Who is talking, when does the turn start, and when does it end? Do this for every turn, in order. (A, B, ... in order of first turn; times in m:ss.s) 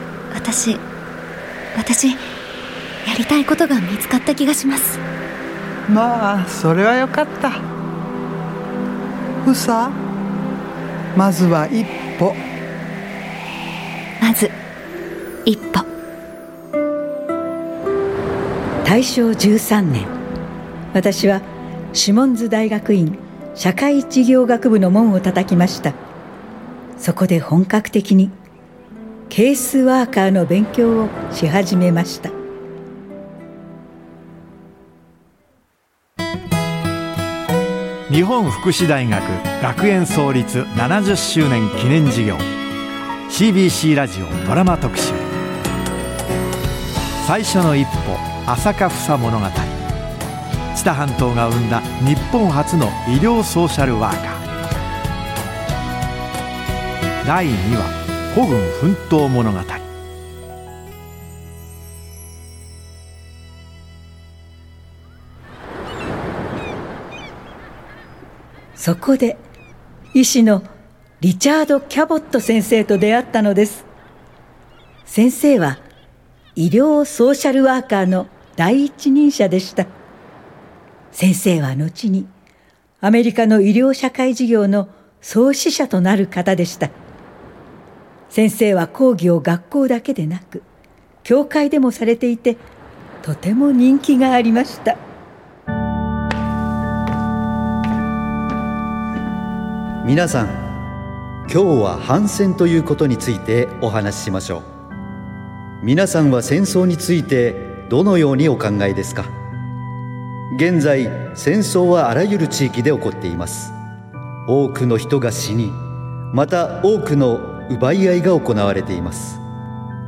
0:00.3-0:00.8 A
0:01.7-0:02.2 A
0:03.0-0:05.0 A
0:05.9-0:07.6 B
0:09.4-0:10.0 B
0:11.1-0:12.4 B
0:14.2-0:14.5 A
0:15.4-0:15.9 A
0:18.8-0:20.2 C
0:20.9-0:26.0 C
0:27.0-0:28.4 C
0:29.3-0:32.3 C
0:38.1-0:42.4 D
0:43.3-0:45.2 D
0:47.2-0:49.7 D
0:50.7-0:54.4 D
0:57.2-0:59.9 D
1:08.8-1:09.4 C
1:10.1-1:10.7 C
1:11.2-1:13.8 C
1:15.0-1:15.8 C
1:16.6-1:19.9 C
1:21.1-1:22.3 C
1:23.0-1:26.9 C
1:28.3-1:30.6 C
1:31.2-1:32.6 C
1:33.2-1:35.0 C
1:40.0-1:40.7 E
1:41.5-1:44.7 E
1:45.8-1:49.3 E
1:50.5-1:53.7 E
1:54.5-1:55.8 E
1:56.3-1:59.4 E